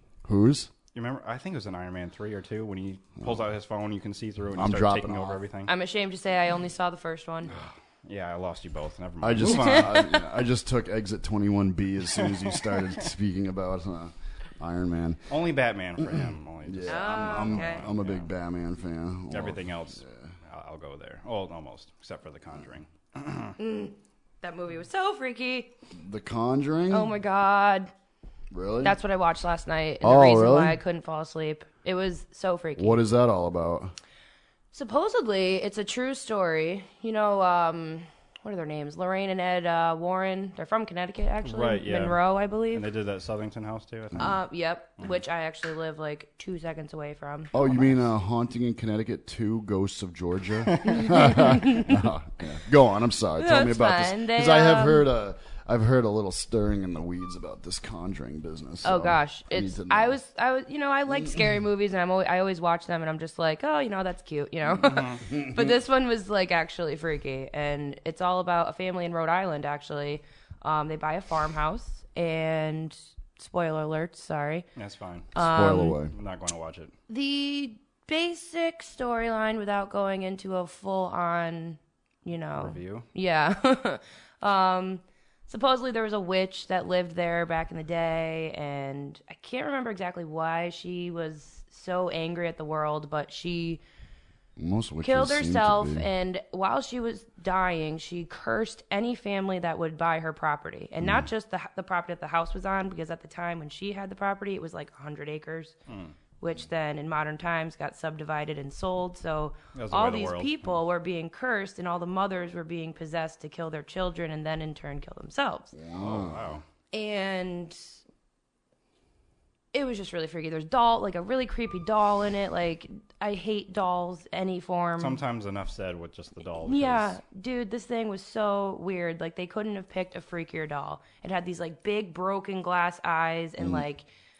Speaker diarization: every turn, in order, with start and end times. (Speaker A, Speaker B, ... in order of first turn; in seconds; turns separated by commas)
Speaker A: 0.2-0.7, Speaker B: 0.9-5.7, Speaker A: 4.5-5.4, Speaker C: 5.7-7.5, Speaker B: 7.5-10.0, Speaker A: 9.2-15.4, Speaker C: 9.4-10.1, Speaker B: 12.2-12.8, Speaker B: 15.3-18.3, Speaker A: 16.0-20.3, Speaker C: 16.9-17.9, Speaker B: 19.3-23.5, Speaker C: 23.6-25.7, Speaker A: 25.9-27.1, Speaker C: 26.9-27.9, Speaker A: 28.5-29.0, Speaker C: 28.8-33.0, Speaker A: 30.0-30.8, Speaker A: 32.8-33.9, Speaker C: 34.7-42.9, Speaker B: 41.4-44.4, Speaker C: 44.2-47.6, Speaker A: 47.5-60.2, Speaker B: 50.7-51.5, Speaker C: 51.2-51.8, Speaker C: 53.4-55.1, Speaker C: 58.8-74.7, Speaker B: 64.8-65.2, Speaker A: 65.3-65.6, Speaker B: 74.8-75.4, Speaker C: 75.3-76.0, Speaker A: 75.4-76.1, Speaker B: 76.0-76.9, Speaker C: 77.1-93.8, Speaker B: 82.6-83.0, Speaker A: 94.6-96.1, Speaker C: 95.0-105.7, Speaker B: 105.9-106.1, Speaker C: 106.4-115.8, Speaker B: 109.7-110.8, Speaker A: 115.7-116.4, Speaker B: 115.9-116.6, Speaker C: 116.9-117.8, Speaker C: 119.7-125.2, Speaker B: 125.0-127.2, Speaker C: 126.6-134.1, Speaker A: 133.6-133.8